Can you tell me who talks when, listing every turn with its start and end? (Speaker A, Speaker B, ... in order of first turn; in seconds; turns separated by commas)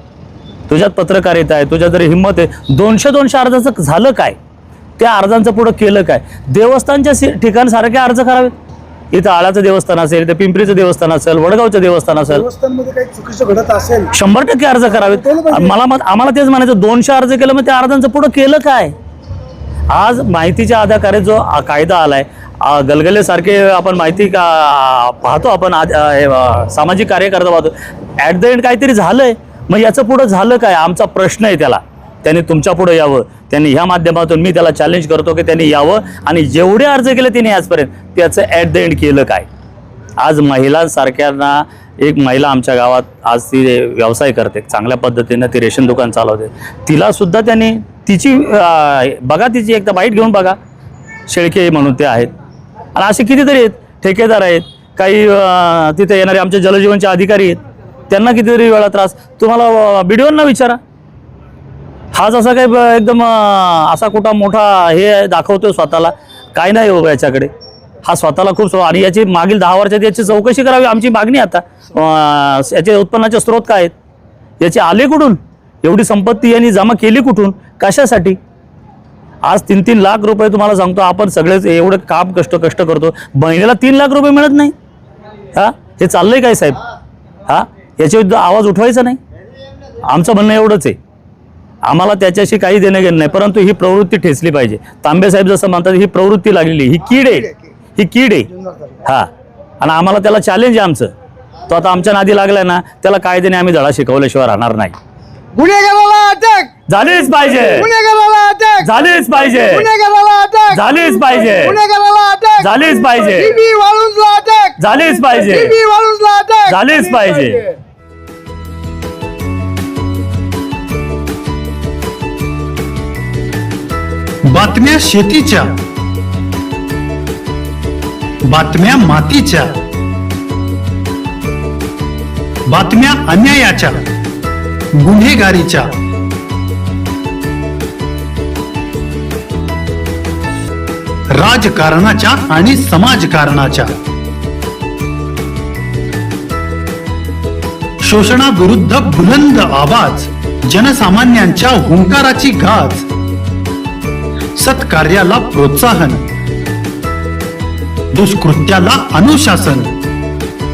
Speaker A: 0.7-4.3, Speaker A: 5.0-8.5, Speaker A: 9.1-12.5, Speaker B: 12.3-14.1, Speaker A: 14.1-18.9, Speaker B: 15.0-15.8, Speaker A: 19.9-39.5, Speaker A: 40.2-50.6, Speaker A: 51.3-52.3, Speaker A: 53.0-60.8, Speaker A: 62.1-67.5, Speaker A: 68.0-73.9, Speaker A: 74.6-78.4, Speaker A: 79.4-84.7, Speaker A: 85.5-86.8, Speaker A: 87.5-89.2, Speaker A: 90.0-91.0, Speaker A: 91.8-98.5, Speaker B: 98.5-99.0, Speaker A: 99.8-101.1, Speaker A: 101.7-105.0, Speaker B: 105.5-117.7, Speaker A: 106.9-107.9, Speaker A: 108.8-109.9, Speaker A: 110.7-111.8, Speaker A: 112.6-113.6, Speaker A: 114.8-115.8, Speaker A: 116.7-117.7, Speaker C: 124.5-125.8, Speaker C: 128.5-129.8, Speaker C: 132.7-134.1, Speaker C: 135.0-136.0, Speaker C: 141.3-143.9, Speaker C: 148.0-153.1, Speaker C: 154.6-156.2, Speaker C: 158.1-159.9